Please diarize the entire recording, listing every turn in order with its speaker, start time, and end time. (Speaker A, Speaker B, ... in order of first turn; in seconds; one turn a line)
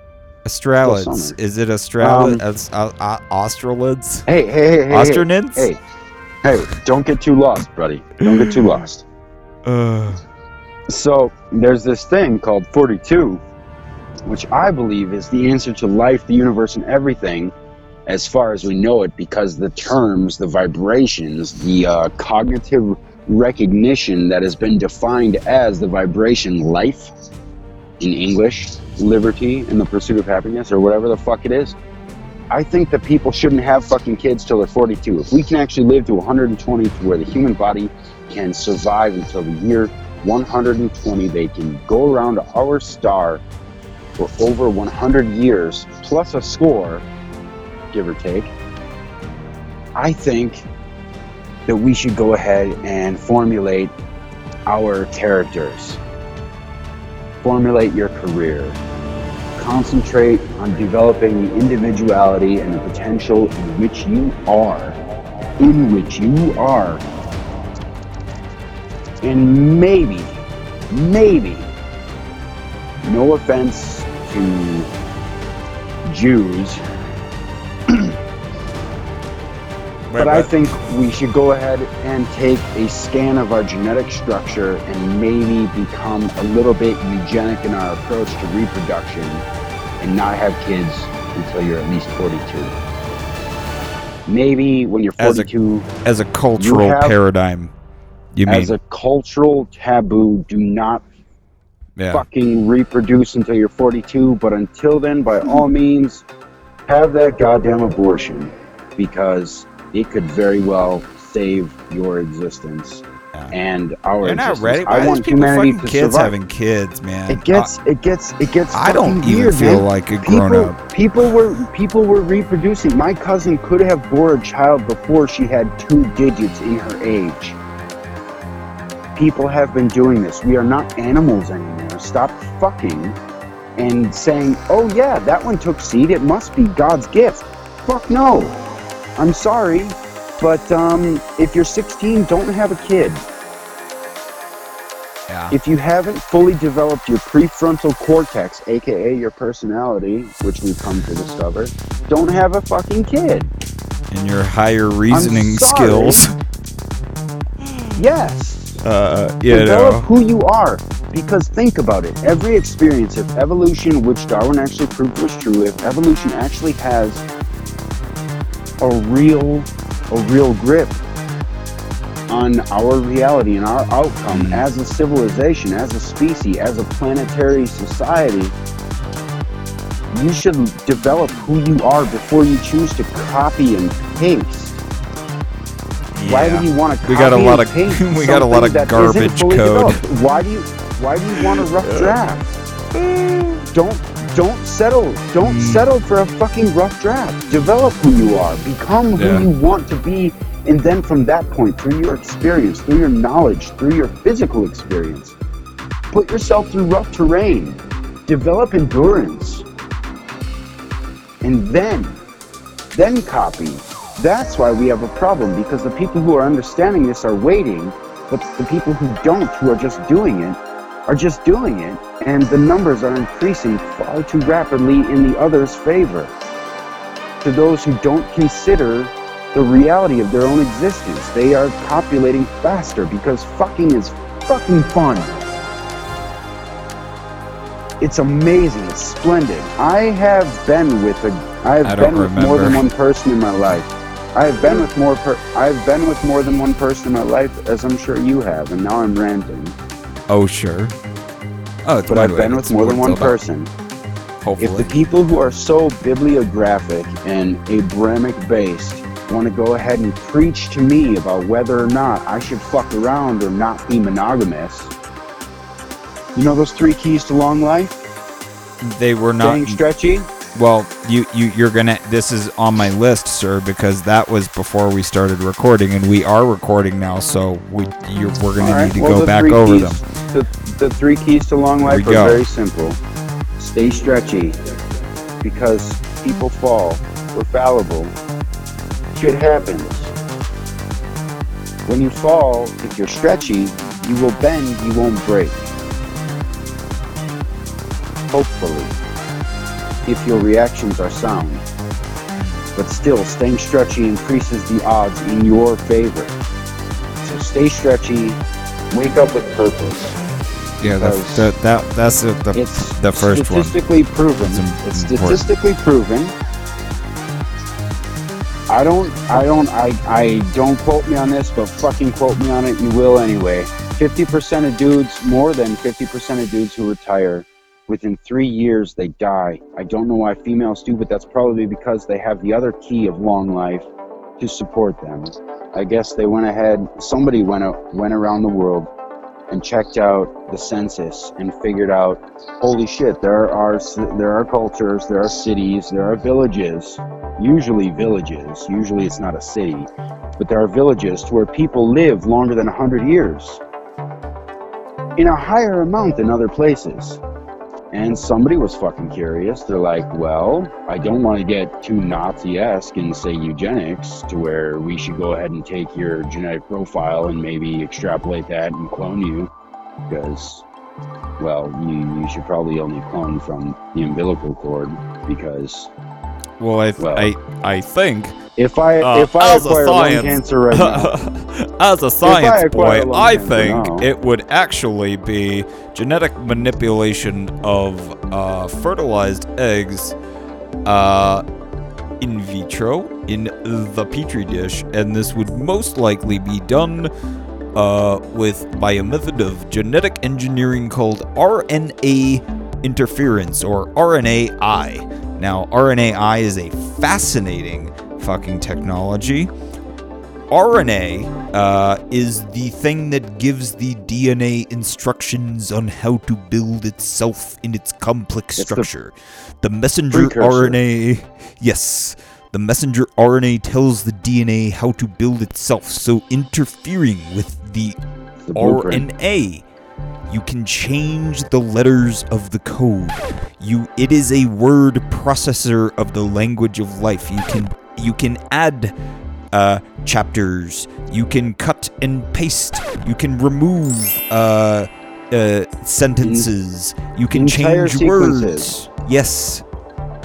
Speaker A: 0.5-4.3
Speaker B: 0.8-1.4
Speaker B: 2.0-2.4
Speaker B: 4.3-5.8
Speaker A: 4.9-5.7
Speaker B: 6.4-9.1
Speaker A: 8.3-8.8
Speaker A: 9.7-10.2
Speaker B: 10.9-13.4
Speaker B: 14.3-17.5
Speaker B: 18.1-27.1
Speaker B: 28.0-31.8
Speaker B: 32.5-43.4
Speaker B: 44.2-47.0
Speaker B: 47.9-48.5
Speaker B: 50.0-50.7
Speaker B: 51.7-53.9
Speaker B: 54.7-56.0
Speaker B: 57.4-58.8
Speaker B: 59.6-65.0
Speaker B: 65.6-67.0
Speaker B: 69.2-71.7
Speaker B: 73.0-74.9
Speaker B: 76.0-76.8
Speaker A: 80.1-80.7
Speaker B: 80.2-89.5
Speaker B: 90.0-92.7
Speaker B: 94.3-95.9
Speaker A: 95.2-95.5
Speaker A: 96.0-97.7
Speaker B: 96.6-97.2
Speaker A: 98.3-98.8
Speaker B: 98.5-101.0
Speaker A: 102.0-102.2
Speaker B: 102.1-106.3
Speaker B: 106.9-116.3
Speaker A: 114.2-117.7
Speaker B: 117.3-127.6
Speaker A: 118.7-120.8
Speaker B: 129.2-133.2
Speaker B: 133.8-138.6
Speaker B: 139.2-143.2
Speaker A: 145.3-145.6
Speaker B: 145.5-153.5
Speaker A: 154.1-156.3
Speaker B: 155.1-156.2
Speaker A: 157.6-158.0
Speaker B: 158.0-158.8
Speaker A: 158.8-160.1
Speaker B: 159.5-167.2
Speaker B: 168.8-171.0
Speaker B: 172.3-178.6
Speaker A: 174.3-174.7
Speaker B: 180.1-184.8
Speaker A: 186.2-190.0
Speaker B: 186.3-192.5
Speaker A: 191.3-192.2
Speaker A: 192.9-193.7
Speaker B: 193.7-205.4
Speaker A: 195.4-195.9
Speaker A: 199.2-199.5
Speaker B: 206.1-209.7
Speaker B: 211.4-212.2
Speaker B: 212.9-226.3
Speaker B: 227.4-235.4
Speaker B: 238.0-249.8
Speaker A: 241.8-242.8
Speaker A: 250.3-250.9
Speaker A: 251.8-253.4
Speaker B: 252.1-253.7
Speaker A: 254.4-254.9
Speaker B: 254.6-264.9
Speaker B: 266.4-268.0
Speaker A: 268.8-269.8
Speaker B: 269.4-270.3
Speaker A: 270.5-280.0
Speaker B: 278.6-283.0
Speaker A: 281.8-282.4
Speaker B: 283.6-284.6
Speaker B: 285.4-288.1
Speaker B: 289.1-290.1
Speaker B: 291.9-295.7
Speaker B: 298.3-298.9
Speaker B: 300.1-301.6
Speaker A: 302.4-302.7
Speaker B: 302.8-306.4
Speaker B: 307.2-308.4
Speaker B: 308.9-310.2
Speaker A: 310.8-313.8
Speaker B: 310.8-311.5
Speaker B: 312.5-316.4
Speaker A: 314.4-315.5
Speaker B: 318.7-338.9
Speaker B: 339.5-353.6
Speaker B: 355.2-357.2
Speaker B: 357.9-369.5
Speaker B: 370.1-370.7
Speaker B: 371.4-375.9
Speaker A: 376.6-378.4
Speaker B: 377.0-377.3
Speaker B: 378.6-381.2
Speaker A: 379.0-390.2
Speaker B: 382.2-384.1
Speaker A: 390.9-391.4
Speaker A: 392.2-397.1
Speaker A: 397.8-409.5
Speaker A: 410.5-428.0
Speaker B: 418.6-418.9
Speaker B: 420.1-420.8
Speaker B: 428.5-429.1
Speaker A: 428.5-429.7
Speaker A: 430.3-438.9
Speaker A: 439.5-449.6
Speaker B: 446.2-446.5
Speaker B: 447.3-448.8